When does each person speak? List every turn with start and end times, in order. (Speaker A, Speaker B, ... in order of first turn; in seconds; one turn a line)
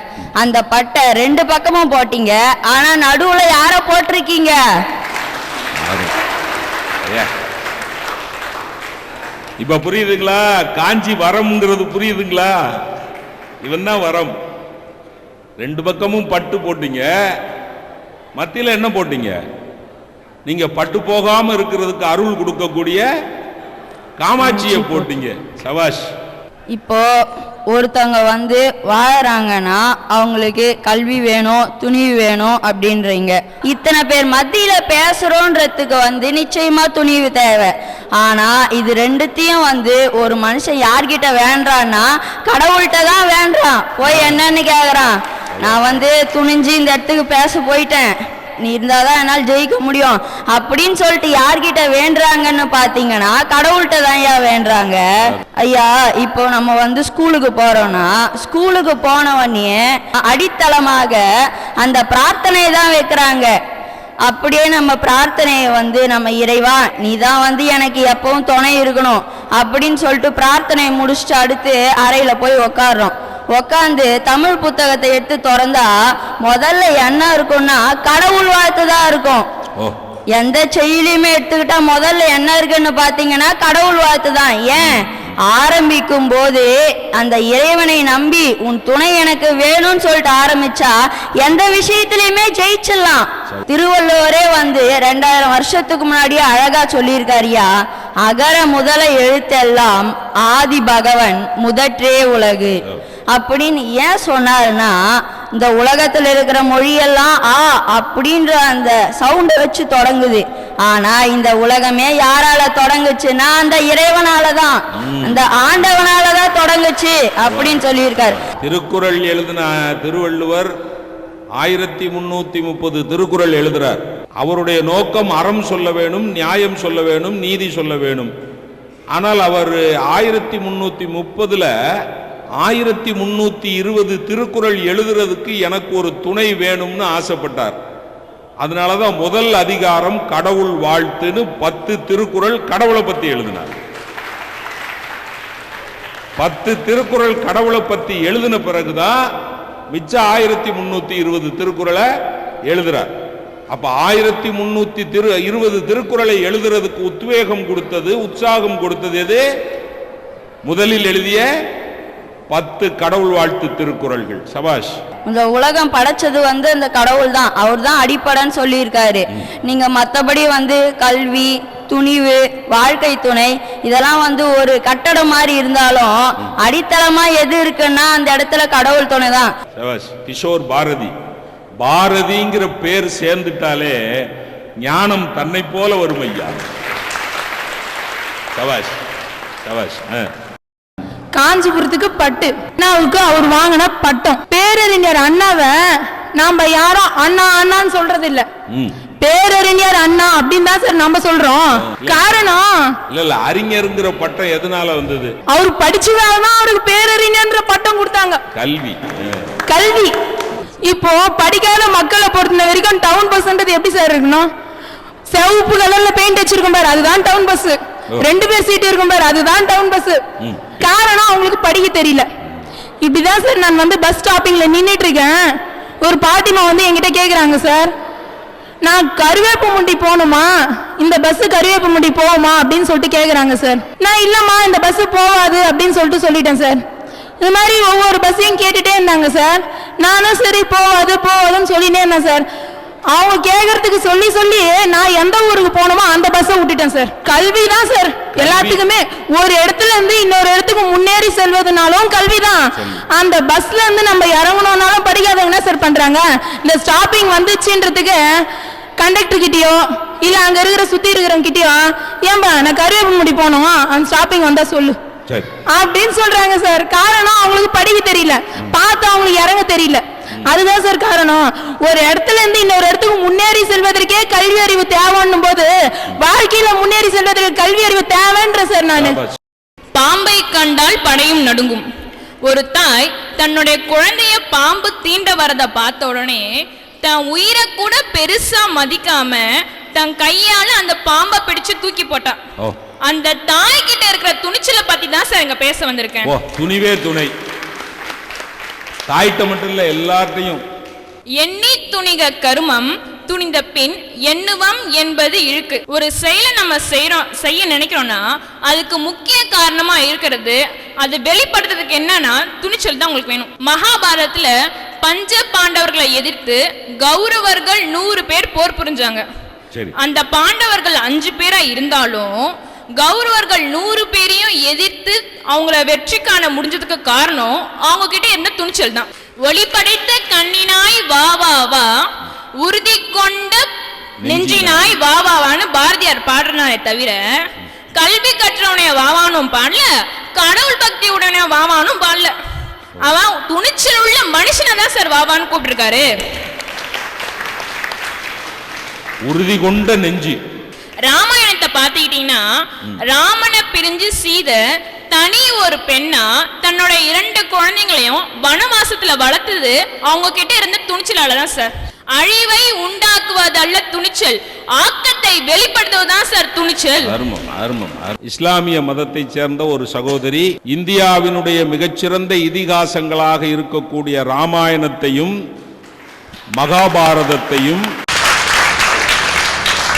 Speaker A: 0.4-4.6
Speaker B: 5.8-6.1
Speaker B: 7.0-7.3
Speaker B: 9.6-12.8
Speaker B: 13.6-14.3
Speaker B: 15.6-17.4
Speaker B: 18.4-19.4
Speaker B: 20.4-23.1
Speaker B: 24.2-26.1
Speaker A: 26.7-27.0
Speaker A: 27.7-55.0
Speaker A: 55.6-61.2
Speaker A: 61.8-63.5
Speaker A: 64.2-75.9
Speaker A: 76.4-79.4
Speaker A: 80.4-97.7
Speaker A: 98.2-102.8
Speaker A: 103.3-105.0
Speaker A: 105.6-118.3
Speaker B: 115.0-115.4
Speaker B: 118.4-120.7
Speaker B: 121.6-128.3
Speaker B: 129.1-132.1
Speaker B: 132.6-137.8
Speaker B: 138.6-143.7
Speaker B: 146.4-149.3
Speaker B: 149.9-152.1
Speaker B: 152.7-153.1
Speaker B: 153.7-159.4
Speaker B: 160.6-161.5
Speaker B: 162.5-165.0
Speaker A: 165.2-179.5
Speaker B: 179.7-181.1
Speaker B: 181.8-186.6
Speaker B: 188.5-189.0
Speaker B: 189.6-190.3
Speaker C: 191.3-198.5
Speaker B: 198.7-199.1
Speaker C: 199.2-202.9
Speaker B: 201.7-202.4
Speaker B: 203.1-205.3
Speaker C: 205.5-208.4
Speaker B: 208.5-209.5
Speaker C: 209.7-210.1
Speaker C: 210.8-214.5
Speaker C: 215.3-220.2
Speaker B: 220.4-220.8
Speaker C: 220.8-222.3
Speaker C: 223.0-227.9
Speaker C: 228.8-236.8
Speaker C: 237.4-242.5
Speaker C: 243.1-258.5
Speaker B: 248.3-248.8
Speaker C: 259.0-265.0
Speaker C: 265.7-279.2
Speaker B: 279.0-279.3
Speaker D: 279.9-281.8
Speaker D: 282.4-286.5
Speaker D: 287.0-292.4
Speaker D: 293.1-296.3
Speaker B: 296.2-297.3
Speaker B: 299.1-300.6
Speaker D: 301.4-319.2
Speaker D: 319.9-331.9
Speaker D: 332.6-333.6
Speaker B: 334.2-334.9
Speaker D: 334.2-342.3
Speaker D: 343.0-346.1
Speaker B: 349.2-350.4
Speaker D: 351.1-352.4
Speaker D: 353.0-367.1
Speaker B: 367.0-375.4
Speaker B: 376.6-377.9